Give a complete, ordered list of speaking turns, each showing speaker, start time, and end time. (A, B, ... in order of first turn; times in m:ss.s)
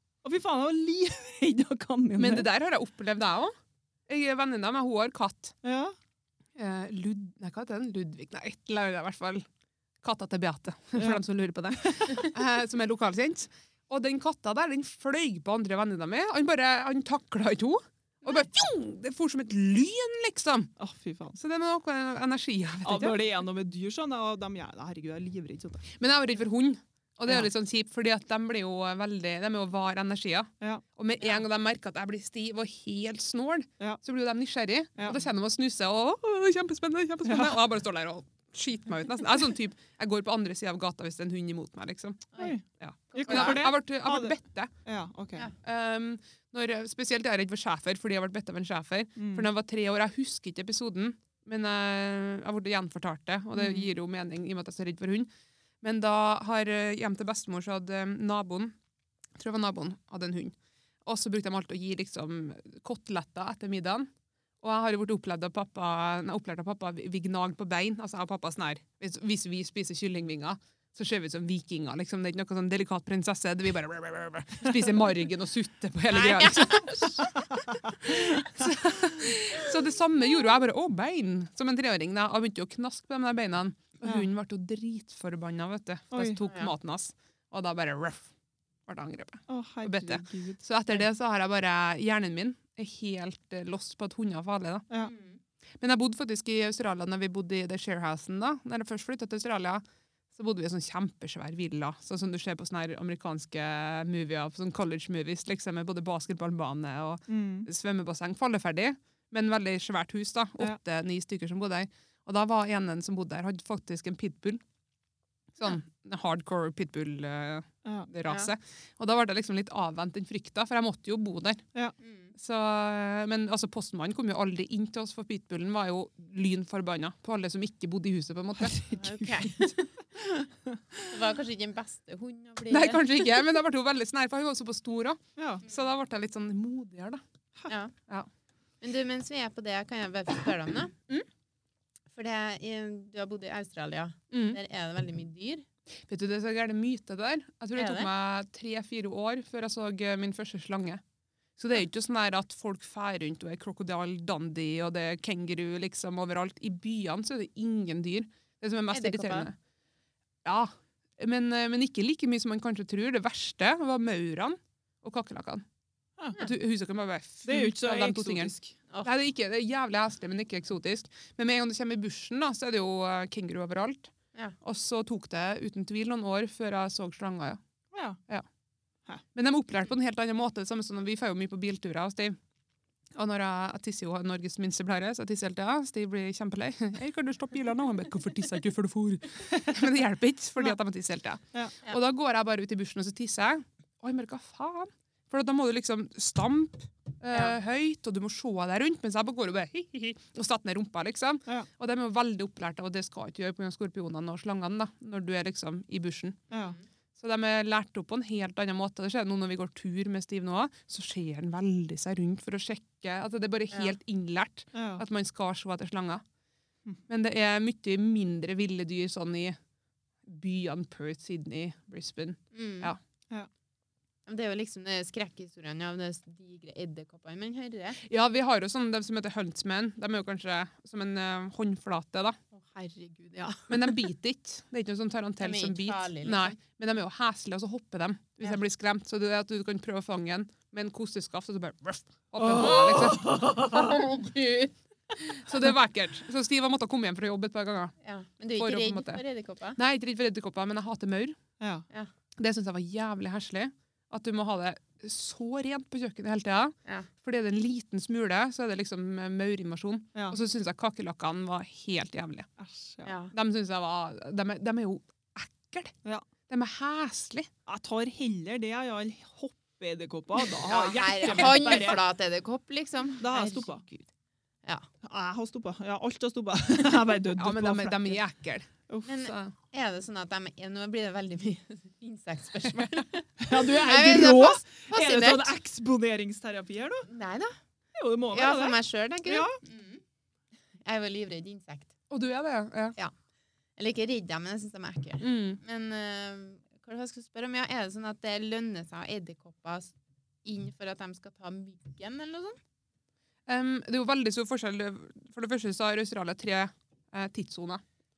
0:00.2-0:02.5 A
0:02.2-0:03.5 B
0:04.1-0:05.5 B
0:05.6-0:06.0 A
0:06.6-0:09.4 B
0:10.0-0:20.7 B
0:11.0-0:11.2 A
0:11.8-0:12.1 A
0:20.8-0:21.4 A
0:21.4-0:23.2 B
0:22.8-0:25.8 A
0:26.0-0:44.7 B
0:37.2-0:37.6 A
0:42.4-0:42.6 A
0:43.1-0:43.6 C
0:43.2-0:45.5 A
0:45.6-0:55.3 B
0:49.2-0:49.5 A
0:53.6-0:53.9 A
0:55.8-0:58.7 B
0:59.4-1:00.5 B
1:01.0-1:04.1 B
1:04.6-1:17.3 B
1:16.1-1:17.3 C
1:17.5-1:18.7 A
1:18.1-1:28.3 B
1:24.0-1:24.3 A
1:26.1-1:26.4 A
1:26.4-1:26.7 C
1:28.9-1:34.8 B
1:29.5-1:31.0 A
1:35.0-1:35.4 C
1:35.8-1:54.6 B
1:47.3-1:47.7 A
1:55.6-2:01.6 B
1:57.8-1:58.1 A
1:58.3-1:58.5 C
2:02.0-2:02.3 C
2:02.4-2:09.3 B
2:08.9-2:09.7 C
2:10.2-2:11.1 A
2:11.1-2:13.2 C
2:12.7-2:17.2 B
2:15.4-2:15.6 A
2:17.7-2:17.9 C
2:18.8-2:20.9 C
2:22.1-2:25.6 C
2:24.3-2:24.6 B
2:26.1-2:31.0 B
2:27.8-2:28.1 C
2:31.6-2:39.6 B
2:38.9-2:39.5 C
2:40.4-2:45.6 B
2:46.4-2:48.5 B
2:47.5-2:48.8 A
2:49.0-2:57.6 B
2:57.9-2:58.2 A
2:59.4-3:02.4 B
3:03.2-3:26.4 B
3:09.5-3:09.9 A
3:26.5-3:26.8 A
3:27.2-3:36.2 B
3:34.7-3:35.0 A
3:37.1-3:39.6 B
3:40.3-3:43.0 B
3:42.5-3:42.9 C
3:44.3-3:48.0 C
3:48.0-3:52.4 B
3:52.5-3:54.0 C
3:53.7-4:03.3 B
3:55.4-3:56.6 C
4:02.4-4:04.0 A
4:02.6-4:04.7 C
4:05.3-4:08.0 B
4:08.0-4:09.8 C
4:08.6-4:09.2 B
4:09.8-4:11.4 B
4:11.6-4:11.9 A
4:12.4-4:22.5 B
4:22.6-4:23.1 A
4:23.0-4:23.3 C
4:23.3-4:25.9 B
4:26.5-4:27.5 B
4:27.7-4:32.0 A
4:30.7-4:34.1 C
4:33.2-4:33.8 A
4:35.0-4:38.2 A
4:37.4-4:38.7 B
4:39.1-4:45.5 C
4:39.2-4:39.5 B
4:43.4-4:47.1 A
4:47.1-4:47.6 C
4:48.0-4:49.6 A
4:48.3-4:50.0 C
4:50.8-4:51.9 C
4:52.1-4:53.0 B
4:53.8-5:02.6 C
4:55.2-4:55.6 B
5:03.5-5:07.8 B